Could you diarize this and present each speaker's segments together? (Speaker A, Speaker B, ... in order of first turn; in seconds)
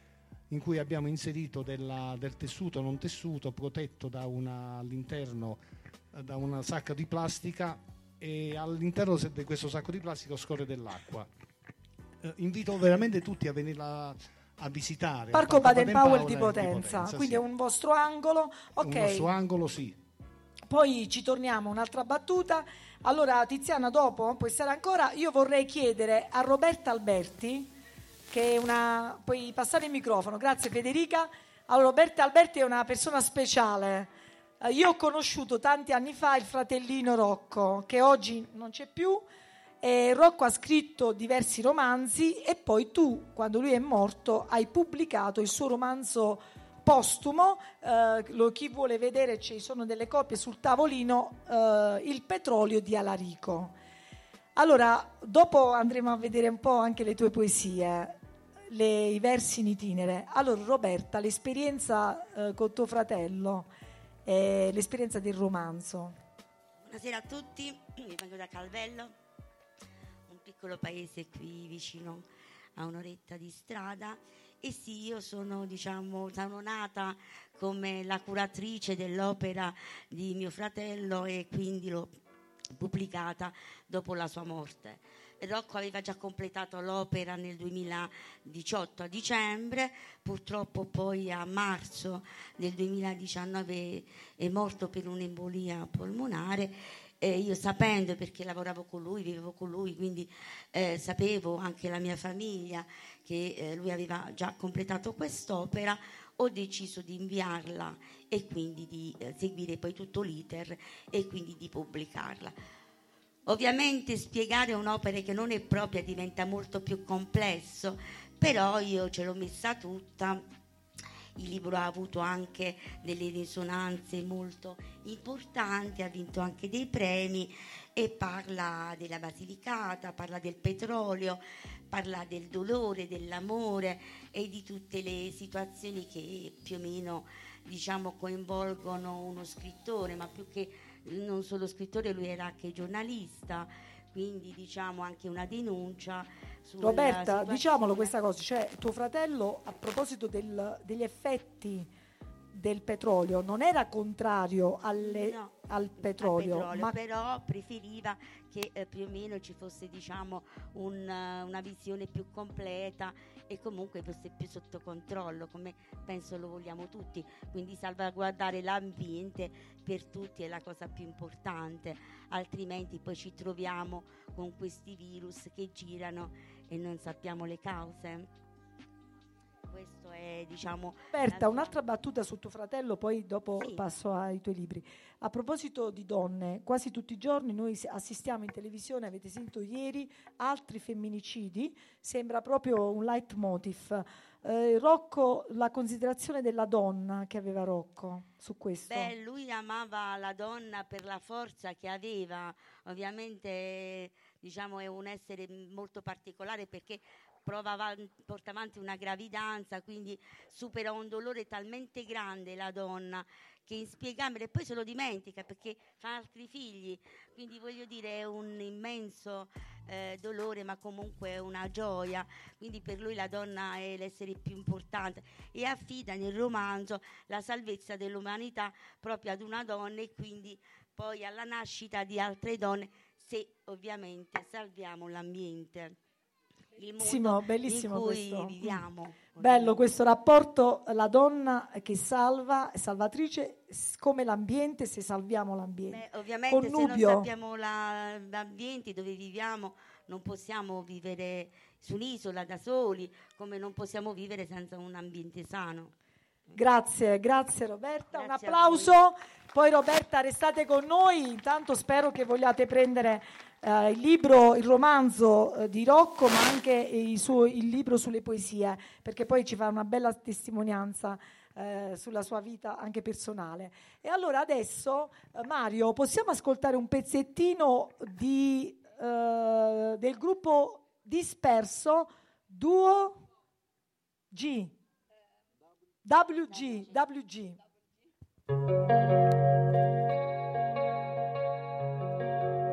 Speaker A: 0.5-5.6, 6.1-11.3, 12.2-17.4, 18.8-19.9
Speaker B: 15.3-19.3, 20.7-27.7, 28.3-34.1, 34.6-39.2, 39.8-53.7, 54.5-58.2, 58.7-63.7, 64.2-66.2, 146.8-151.9, 152.5-156.9, 181.1-199.1, 237.0-238.8, 239.4-247.3, 256.5-283.2, 284.3-284.7, 286.0-287.6
Speaker C: 66.8-69.2, 70.3-82.1, 82.7-112.5, 113.5-120.4, 121.4-148.1, 155.0-178.3, 179.7-181.8, 183.6-183.8, 198.9-236.0, 236.8-239.8, 245.9-255.9, 258.1-259.0